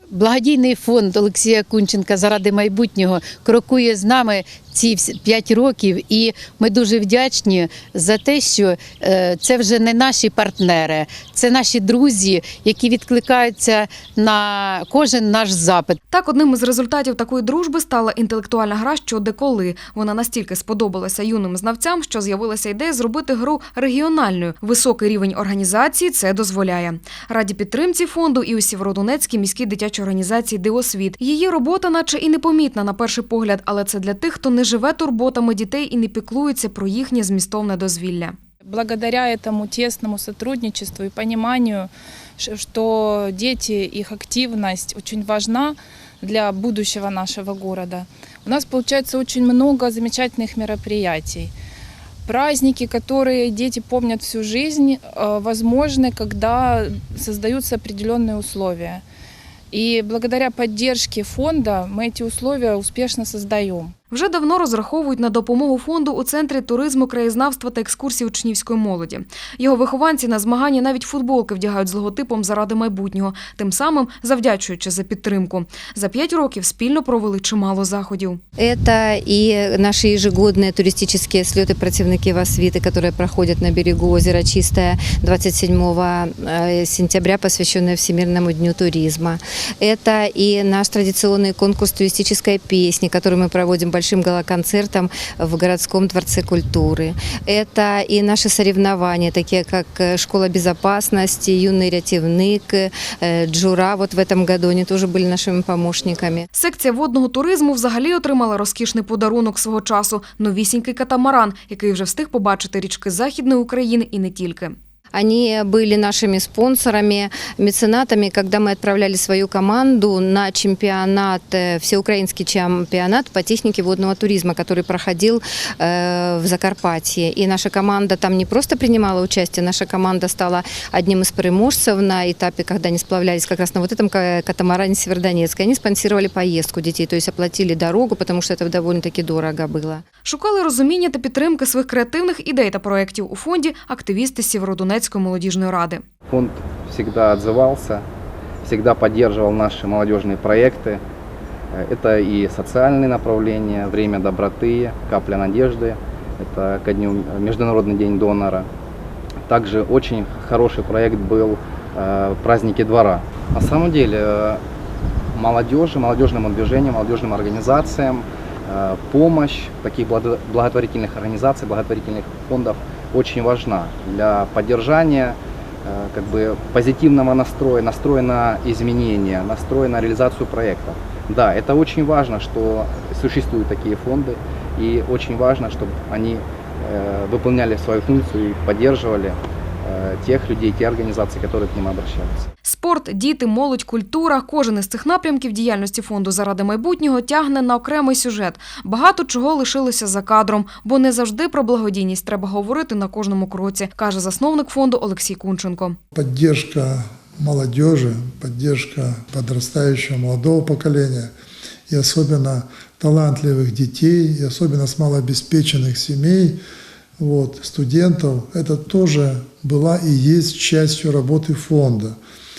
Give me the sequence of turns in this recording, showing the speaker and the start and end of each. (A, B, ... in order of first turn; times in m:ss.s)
0:00.1-0:16.0 A
0:16.1-0:38.4 B
0:38.7-0:51.5 C
0:52.3-0:59.0 C
0:59.7-1:03.9 C
1:04.1-1:18.4 B
1:18.6-1:46.5 D
1:46.5-1:54.8 B
1:55.1-2:20.0 D
2:20.2-2:26.0 B
2:26.3-2:28.0 E
2:28.6-2:31.0 E
2:31.7-2:38.7 E
2:39.5-2:44.6 E
2:45.3-3:12.5 E
3:12.6-3:26.0 B
3:26.1-3:31.3 F
3:31.9-3:36.6 F
3:37.2-3:42.2 F